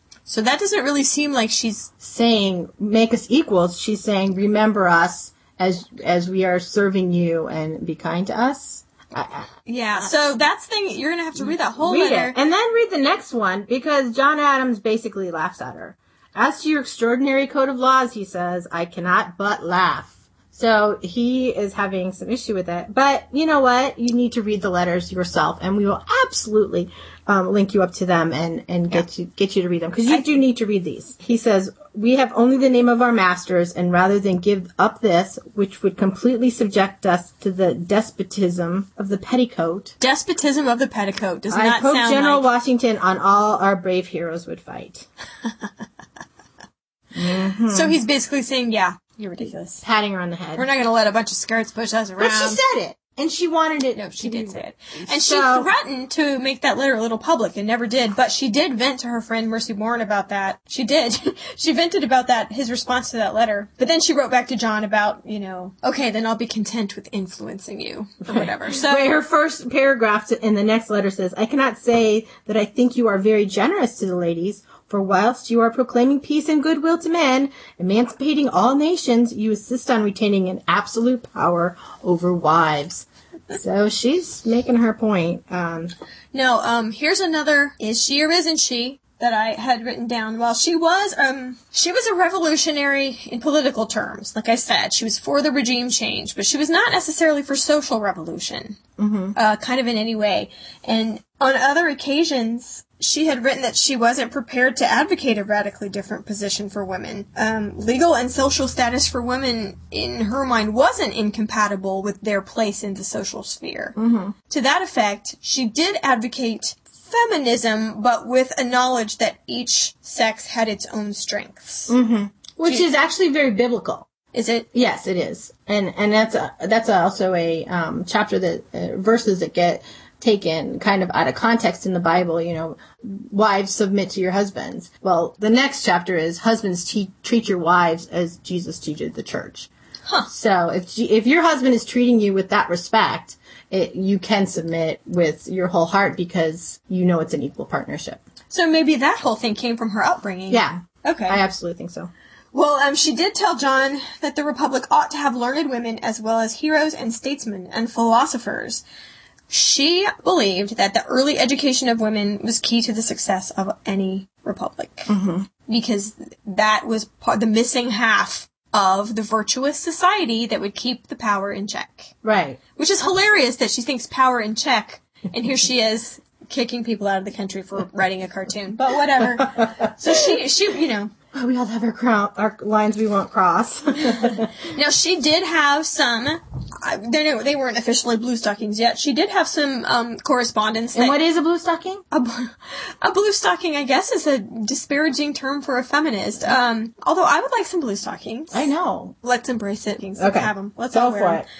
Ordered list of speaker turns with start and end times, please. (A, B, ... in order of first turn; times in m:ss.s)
0:00.2-0:01.9 A
0:02.0-0:09.5 B
0:09.6-0:12.4 A
0:11.4-0:39.9 B
0:30.1-0:30.4 A
0:40.0-0:42.5 A
0:41.5-0:45.1 B
0:47.1-0:48.0 B
0:47.7-0:49.8 A
0:49.8-0:50.6 B
0:50.6-0:52.6 A
0:52.2-0:55.7 B
0:53.9-1:09.1 A
1:08.3-1:25.9 B
1:26.3-1:38.8 A
1:39.0-1:39.3 B
1:39.3-1:53.9 A
1:54.0-1:54.3 B
1:54.5-2:02.0 A
2:01.9-2:04.0 B
2:04.3-2:04.7 A
2:04.7-2:19.7 B
2:20.3-2:28.2 B
2:28.5-2:31.4 A
2:30.5-2:32.1 B
2:32.5-2:38.8 A
2:39.5-2:45.1 A
2:45.1-2:45.5 B
2:45.7-2:52.1 A
2:52.2-2:52.6 B
2:52.8-3:01.1 A
3:01.3-3:04.5 B
3:04.5-3:11.2 A
3:11.0-3:12.0 B
3:12.1-3:21.4 A
3:18.5-3:19.1 B
3:20.2-3:21.4 B